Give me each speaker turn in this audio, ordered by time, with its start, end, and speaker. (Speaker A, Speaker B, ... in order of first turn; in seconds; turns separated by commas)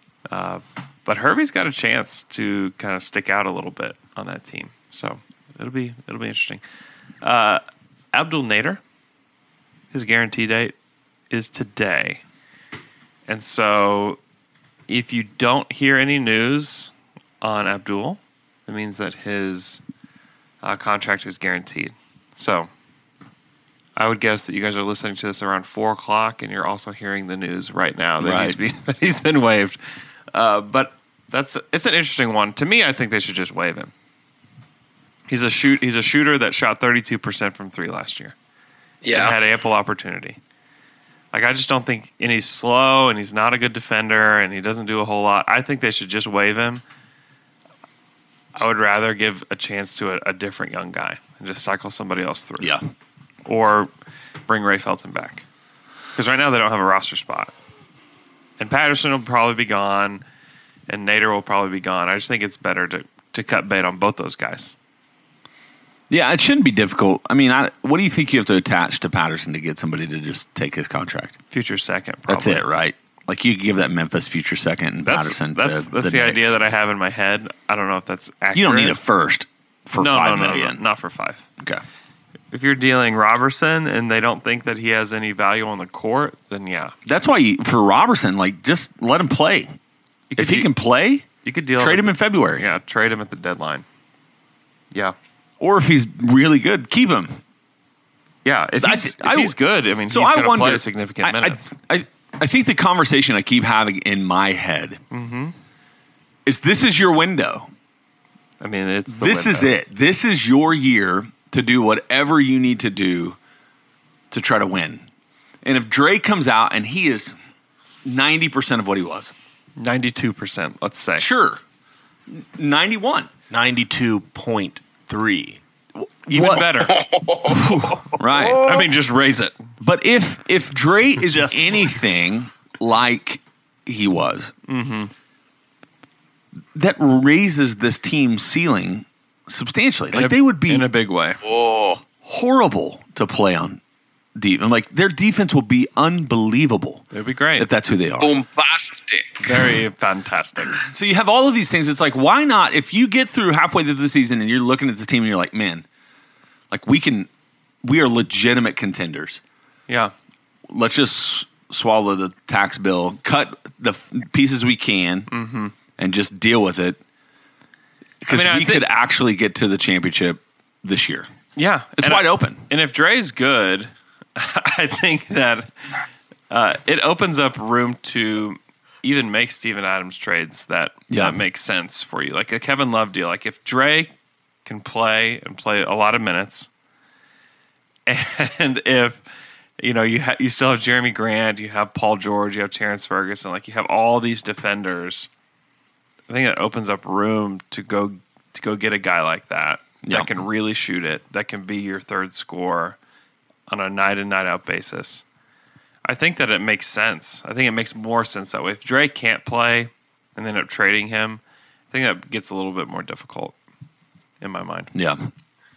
Speaker A: 0.3-6.6, Speaker A: 7.2-8.8, Speaker A: 9.9-10.7, Speaker A: 11.3-12.2, Speaker A: 13.3-14.2, Speaker A: 14.9-19.8, Speaker A: 20.6-22.7, Speaker A: 23.9-29.8, Speaker B: 28.2-28.6, Speaker A: 30.3-33.9, Speaker A: 35.3-38.3, Speaker C: 39.0-39.4, Speaker A: 39.1-40.4, Speaker A: 41.3-46.8, Speaker A: 48.5-52.8, Speaker A: 53.4-53.9, Speaker A: 54.5-55.4, Speaker A: 56.1-57.5, Speaker A: 58.6-60.2, Speaker A: 60.9-64.7, Speaker B: 66.1-71.3, Speaker A: 71.5-72.7, Speaker B: 72.3-76.6, Speaker A: 75.0-79.0, Speaker B: 78.5-80.8, Speaker A: 80.0-81.4, Speaker A: 82.5-86.9, Speaker B: 87.0-89.7, Speaker A: 90.3-90.7, Speaker B: 90.4-91.2, Speaker A: 91.4-93.8, Speaker B: 91.8-92.7, Speaker B: 95.6-97.4, Speaker A: 98.4-101.7, Speaker B: 98.8-105.0, Speaker A: 105.1-105.5, Speaker B: 106.5-107.7, Speaker A: 108.6-109.7, Speaker B: 109.1-113.4, Speaker B: 114.3-115.0, Speaker B: 115.6-117.3, Speaker B: 118.0-119.3, Speaker A: 119.8-121.3, Speaker B: 121.2-121.6, Speaker B: 122.3-123.3, Speaker D: 123.5-125.6, Speaker B: 126.0-126.9, Speaker A: 126.3-127.0, Speaker C: 126.9-128.2, Speaker B: 127.5-128.8, Speaker A: 128.5-129.6, Speaker B: 129.8-134.5, Speaker D: 131.3-131.9, Speaker A: 134.7-135.1, Speaker B: 136.7-140.8, Speaker A: 140.1-141.4, Speaker C: 141.4-142.0, Speaker B: 142.2-143.8, Speaker B: 144.3-147.0, Speaker A: 147.1-147.7, Speaker B: 147.6-148.3, Speaker C: 148.2-149.6, Speaker A: 149.4-150.8, Speaker B: 150.7-155.8, Speaker B: 156.7-157.3, Speaker B: 157.8-159.4, Speaker A: 159.9-160.1, Speaker B: 160.7-165.3, Speaker A: 165.3-165.7, Speaker B: 166.0-167.0, Speaker B: 168.2-171.3, Speaker A: 168.3-168.9, Speaker A: 171.6-175.7, Speaker B: 172.0-172.6, Speaker A: 176.5-184.1, Speaker B: 181.1-181.4, Speaker A: 184.6-186.7, Speaker A: 188.1-189.2, Speaker A: 189.8-195.3, Speaker A: 196.3-203.0, Speaker B: 200.0-200.3, Speaker A: 203.7-205.2, Speaker A: 206.0-213.5, Speaker A: 214.4-214.9, Speaker B: 214.9-215.3